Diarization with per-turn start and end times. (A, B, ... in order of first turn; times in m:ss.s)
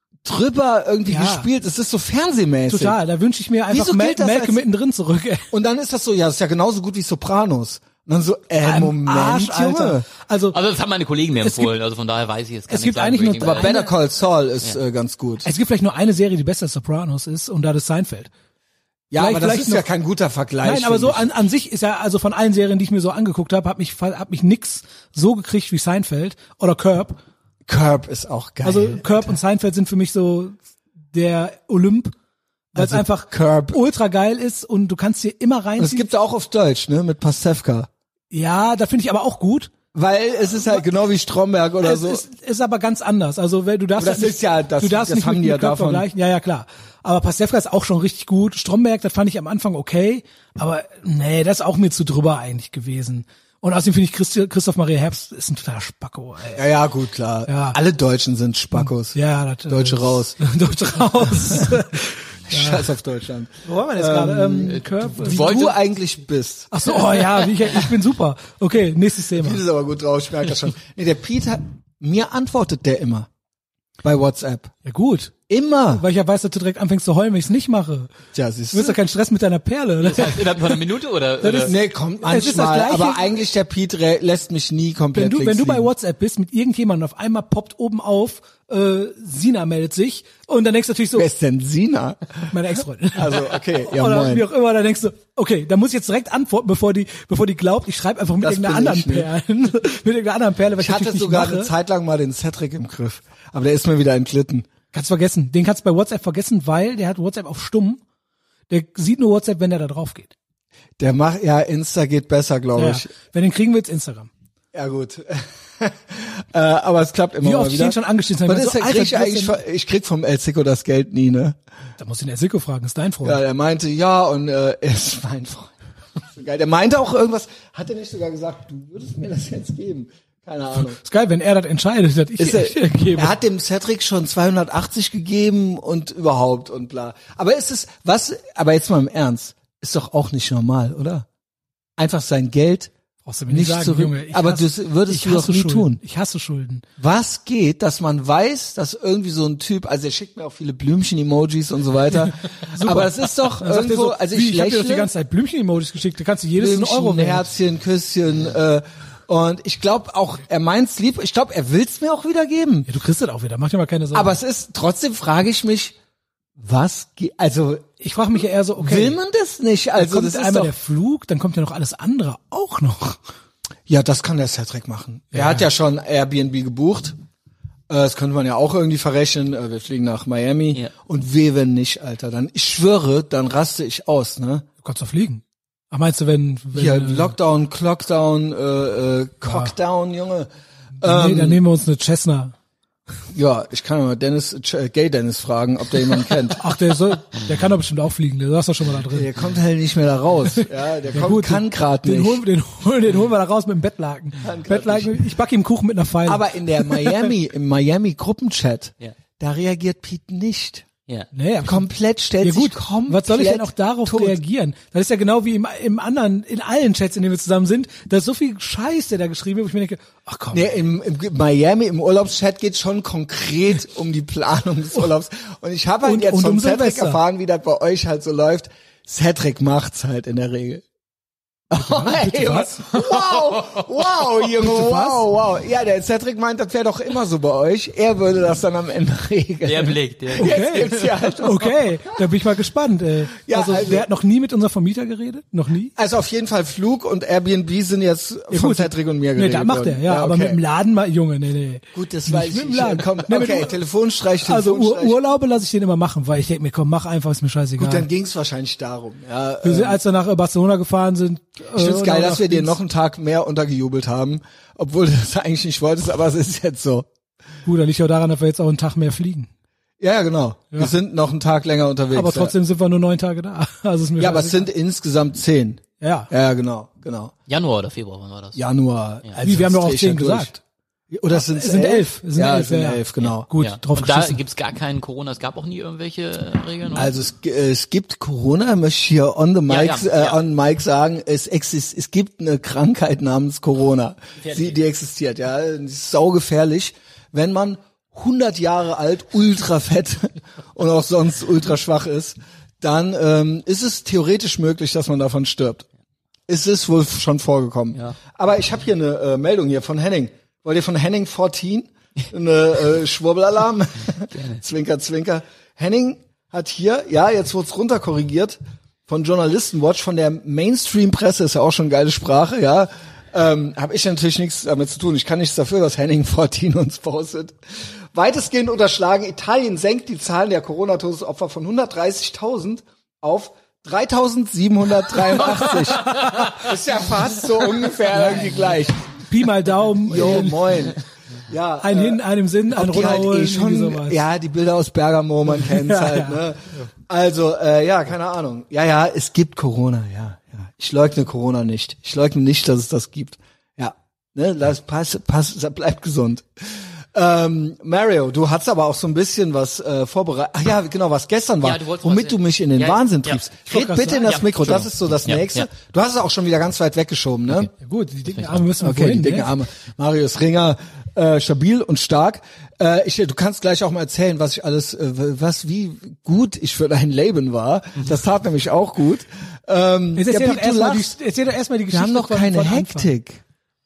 0:00.2-0:03.0 A
0:01.1-0:01.5 B
0:02.7-0:05.5 B
0:03.7-0:04.6 A
0:05.5-0:10.0 A
0:08.6-0:10.6 B
0:10.5-0:13.8 C
0:11.4-0:11.7 B
0:12.7-0:13.9 B
0:13.4-0:15.5 A
0:15.4-0:18.3 B
0:19.1-0:21.3 A
0:19.1-0:19.9 B
0:20.6-0:27.2 B
0:27.7-0:29.4 A
0:28.6-0:30.6 B
0:31.1-0:32.1 B
0:32.7-0:33.8 A
0:32.7-0:36.1 B
0:35.8-0:37.9 A
0:38.3-0:39.7 B
0:39.9-0:42.2 A
0:41.8-0:56.6 B
0:44.0-0:46.1 A
0:56.5-0:59.2 A
0:57.5-0:57.8 B
0:58.7-1:02.9 B
0:59.7-1:00.4 A
1:01.5-1:01.8 A
1:02.5-1:07.0 A
1:03.6-1:05.7 B
1:04.7-1:05.8 C
1:06.7-1:09.6 B
1:09.4-1:13.3 A
1:14.0-1:14.7 A
1:14.8-1:15.3 B
1:15.5-1:16.0 A
1:15.9-1:18.1 B
1:18.3-1:19.0 A
1:18.7-1:20.8 B
1:20.0-1:21.7 C
1:21.4-1:23.2 B
1:21.6-1:25.9 A
1:25.1-1:31.3 B
1:31.1-1:32.5 A
1:32.5-1:41.7 B
1:33.1-1:34.5 A
1:38.4-1:39.3 A
1:40.8-1:44.7 A
1:44.9-1:48.0 B
1:48.7-1:50.3 B
1:51.0-1:53.1 A
1:52.8-1:54.3 B
1:54.7-2:01.6 A
1:57.4-1:59.6 B
2:02.0-2:03.4 B
2:03.2-2:05.7 A
2:06.2-2:11.0 A
2:10.8-2:13.4 B
2:12.4-2:21.2 A
2:22.0-2:22.9 A
2:23.2-2:26.8 B
2:23.5-2:26.0 A
2:27.0-2:35.1 A
2:32.7-2:37.5 B
2:36.6-2:42.9 A
2:42.9-2:44.4 B
2:44.1-2:45.9 A
2:46.6-2:47.9 A
2:48.0-2:49.2 B
2:48.8-2:50.7 A
2:50.0-2:53.2 B
2:53.9-2:57.1 A
2:55.3-2:55.6 B
2:57.9-3:04.6 A
3:04.8-3:07.3 B
3:06.7-3:10.5 A
3:09.4-3:09.7 B
3:11.0-3:11.6 A
3:11.0-3:12.5 B
3:13.3-3:16.6 A
3:16.6-3:19.3 B
3:19.1-3:22.4 A
3:20.6-3:27.3 B
3:24.4-3:25.2 A
3:26.2-3:30.9 A
3:31.3-3:31.9 B
3:31.6-3:34.4 A
3:32.4-3:40.7 B
3:40.5-3:50.8 A
3:46.0-3:47.2 B
3:51.7-4:02.1 A
3:51.7-3:52.7 B
3:53.3-3:53.8 C
3:54.5-3:55.2 B
3:59.6-4:01.4 C
4:00.4-4:05.9 B
4:03.4-4:04.0 A
4:06.0-4:10.6 A
4:08.5-4:13.7 B
4:11.9-4:15.2 A
4:14.4-4:18.1 B
4:17.8-4:20.0 A
4:19.6-4:22.7 B
4:21.7-4:27.1 A
4:27.6-4:29.5 B
4:30.0-4:32.5 A
4:32.1-4:34.7 B
4:34.2-4:37.3 A
4:36.0-4:36.3 B
4:37.5-4:38.6 C
4:38.6-4:40.5 A
4:39.4-4:40.6 B
4:41.1-4:43.5 A
4:41.3-4:44.4 B
4:43.2-4:47.1 C
4:46.9-5:05.9 A
4:49.7-4:50.4 C
4:54.4-4:54.8 C
5:06.5-5:27.6 A
5:14.3-5:14.6 C
5:28.1-5:39.0 A
5:39.3-5:40.8 B
5:40.0-6:07.7 A
5:41.8-5:44.2 B
5:45.6-5:46.4 B
6:01.6-6:03.4 C
6:03.7-6:04.4 B
6:04.2-6:05.7 C
6:07.8-6:09.5 B
6:08.7-6:21.1 A
6:20.2-6:23.1 B
6:21.9-6:23.4 A